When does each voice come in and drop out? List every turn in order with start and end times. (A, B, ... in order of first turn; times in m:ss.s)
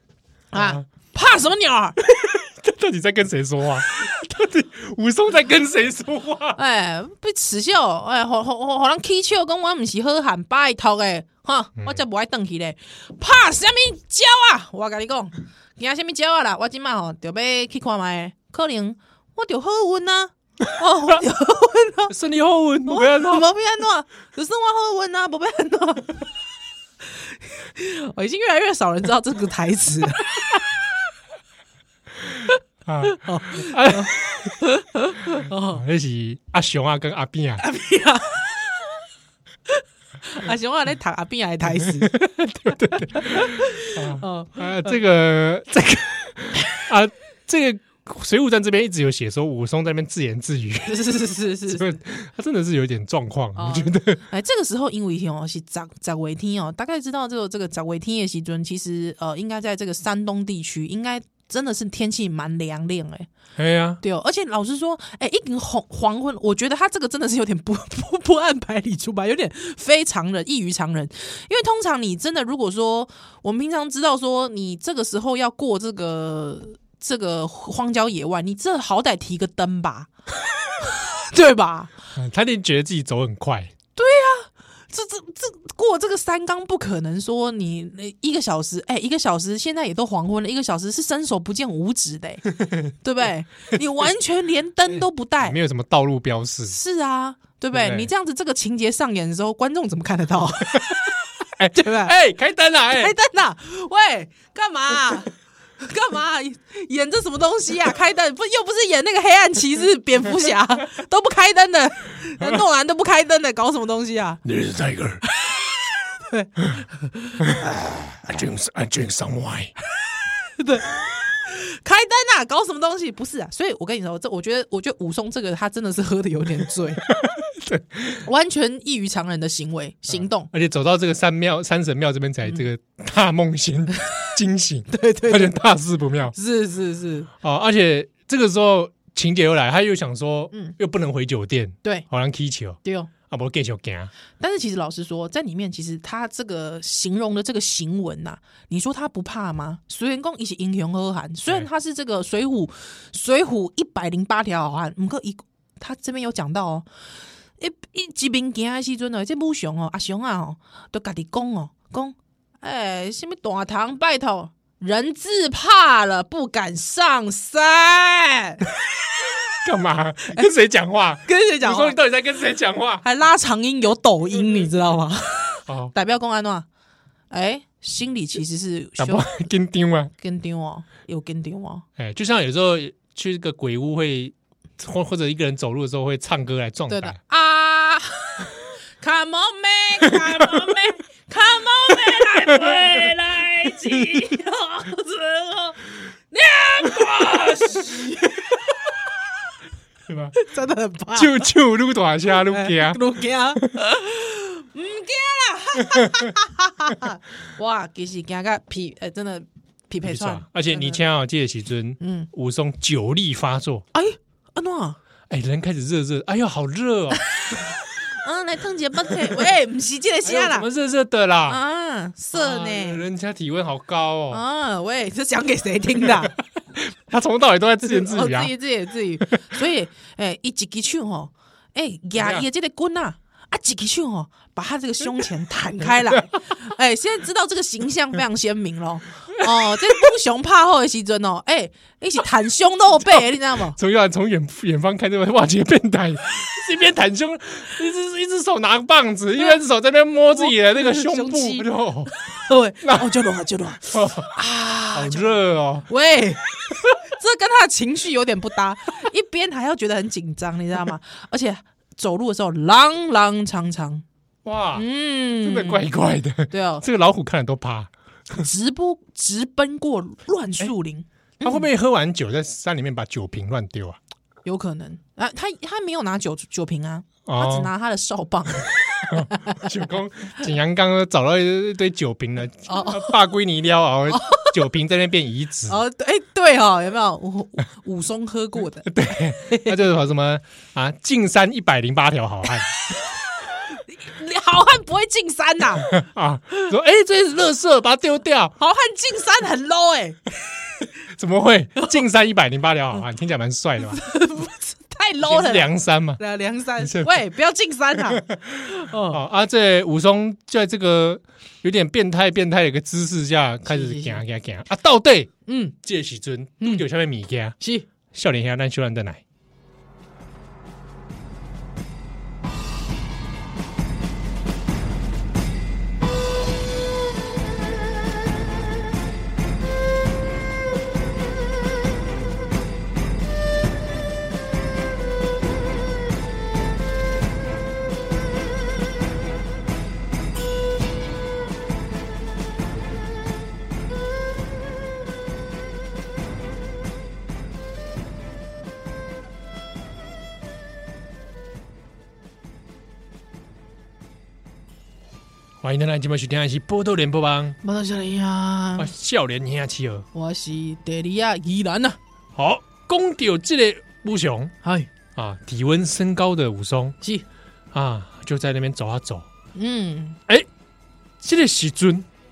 0:00.5-0:02.0 A
0:00.5-0:00.8 B
0:02.1-0:06.6 B
0:06.6-0:22.1 A
0:22.1-0:23.5 B
0:22.9-0:26.2 A
0:27.6-0:30.6 A
0:32.9-0:34.5 B
0:33.1-0:35.8 A
0:35.7-0:37.6 B
0:37.6-0:38.7 A
0:39.7-0:42.2 A
0:41.8-0:51.0 B
0:42.8-0:45.0 A
0:50.9-0:51.9 A
0:51.7-0:54.2 B
0:53.6-1:03.3 A
1:03.6-1:04.0 B
1:04.0-1:20.1 A
1:20.8-1:21.9 A
1:22.2-1:23.7 B
1:24.0-1:35.6 A
1:35.4-1:36.8 B
1:36.7-1:41.1 A
1:37.7-1:38.1 B
1:41.6-1:43.2 B
1:41.7-1:42.1 A
1:42.9-1:54.4 A
1:54.4-1:55.2 B
1:55.3-1:57.6 A
1:57.4-1:59.7 B
2:00.6-2:07.1 A
2:07.1-2:08.2 B
2:08.2-2:10.5 A
2:10.1-2:16.4 B
2:14.9-2:15.6 A
2:16.3-2:17.3 A
2:17.4-2:24.1 B
2:22.8-2:23.1 A
2:24.4-2:36.9 A
2:37.6-2:48.7 A
2:49.6-2:53.0 B
2:51.3-2:52.0 A
2:53.0-2:56.7 A
2:55.7-2:55.9 B
2:57.3-2:59.3 A
2:59.0-3:00.1 B
3:00.2-3:01.8 A
3:02.0-3:07.2 B
3:06.9-3:15.8 A
3:16.3-3:19.0 A
3:20.1-3:20.4 B
3:20.4-3:21.5 A
3:21.1-3:23.0 B
3:22.4-3:31.0 A
3:30.0-3:33.8 B
3:32.0-3:32.3 A
3:33.9-3:35.0 A
3:35.3-3:37.6 B
3:37.2-3:40.7 A
3:40.2-3:41.6 B
3:41.5-3:43.0 A
3:42.3-3:44.4 B
3:44.3-3:46.4 A
3:46.2-3:48.5 B
3:47.8-4:03.8 A
3:52.2-3:52.5 B
4:03.0-4:12.1 B
4:10.3-4:24.0 A
4:12.8-4:13.1 B
4:13.9-4:14.3 B
4:14.9-4:15.9 B
4:24.4-4:24.9 B
4:24.8-4:25.9 A
4:25.4-4:28.4 B
4:26.5-4:26.8 A
4:28.3-4:31.7 A
4:31.4-4:34.0 B
4:34.4-4:39.7 A
4:37.3-4:37.7 B
4:39.1-4:45.8 B
4:42.7-4:43.2 A
4:44.1-4:44.6 A
4:45.7-4:49.8 A
4:48.9-4:52.8 B
4:53.7-4:55.9 A
4:55.8-4:58.6 B
4:58.6-5:00.2 A
5:01.1-5:04.0 B
5:03.8-5:09.2 A
5:05.2-5:06.2 B
5:06.8-5:07.1 B
5:08.1-5:15.3 B
5:13.7-5:14.2 A
5:15.5-5:15.8 A
5:15.8-5:17.6 B
5:16.6-5:16.8 A
5:17.6-5:17.9 A
5:18.1-5:19.2 B
5:55.6-5:57.6 B
5:57.6-5:58.9 A
5:58.8-6:00.1 B
6:00.1-6:02.0 A
6:02.4-6:04.5 B
6:04.6-6:04.9 A
6:05.2-6:07.0 B
6:07.7-6:09.3 B
6:09.6-6:10.2 A
6:11.2-6:12.1 B